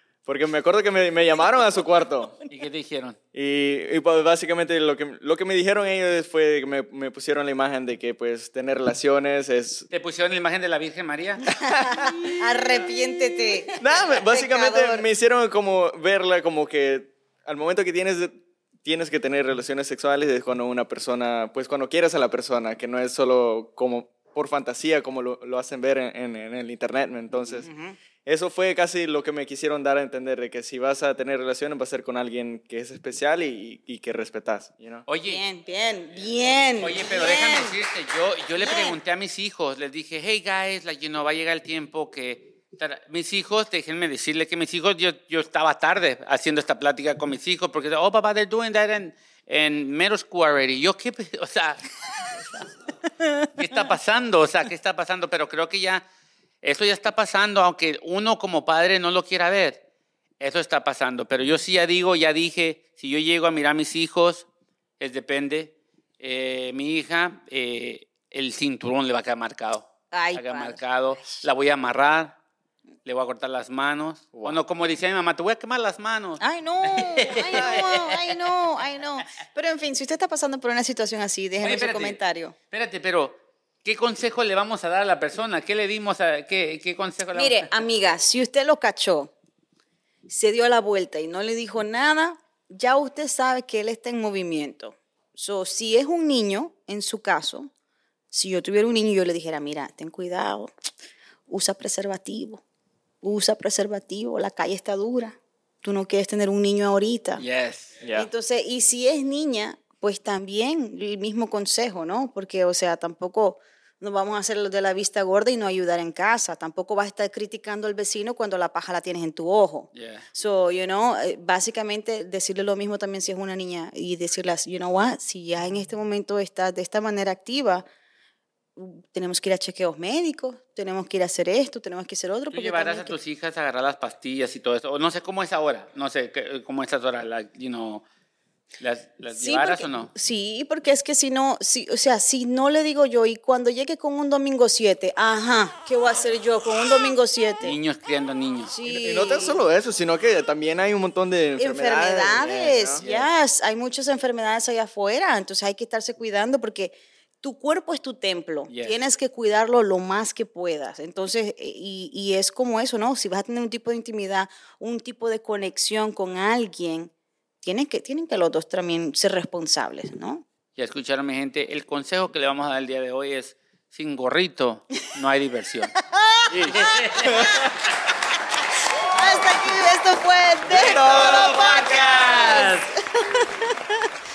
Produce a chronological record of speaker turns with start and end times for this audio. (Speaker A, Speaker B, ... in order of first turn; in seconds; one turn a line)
Speaker A: 0.2-2.4
Speaker B: 2.5-3.2
Speaker A: 3.3-9.9
Speaker B: 9.9-11.4
Speaker C: 11.6-15.1
Speaker A: 11.9-12.9
Speaker A: 13.7-27.7
Speaker C: 27.6-28.0
Speaker A: 28.2-35.0
Speaker B: 35.1-35.4
Speaker C: 35.2-37.8
Speaker B: 36.8-51.8
Speaker C: 38.6-39.0
Speaker B: 52.3-52.6
Speaker B: 53.5-56.0
Speaker B: 56.6-59.8
Speaker B: 60.4-64.5
Speaker B: 65.0-72.4
Speaker C: 70.1-71.4
Speaker B: 73.0-78.3
Speaker A: 74.3-74.6
Speaker C: 76.4-82.5
Speaker B: 81.6-87.7
Speaker C: 87.3-89.3
Speaker C: 90.3-97.7
Speaker C: 98.3-100.7
Speaker C: 101.5-102.6
Speaker C: 103.2-107.4
Speaker B: 107.4-107.9
Speaker A: 108.0-108.3
Speaker C: 108.1-127.8
Speaker B: 119.9-120.2
Speaker C: 128.8-133.1
Speaker B: 132.5-138.0
Speaker B: 138.8-140.1
Speaker C: 139.3-147.8
Speaker B: 147.6-148.7
Speaker C: 148.7-149.6
Speaker A: 148.8-153.1
Speaker C: 151.6-170.4
Speaker B: 153.0-153.3
Speaker B: 158.7-158.9
Speaker B: 170.8-175.9
Speaker C: 176.1-176.8
Speaker A: 176.5-177.6
Speaker B: 176.6-177.8
Speaker C: 179.1-184.0
Speaker B: 180.7-182.9
Speaker A: 180.8-181.5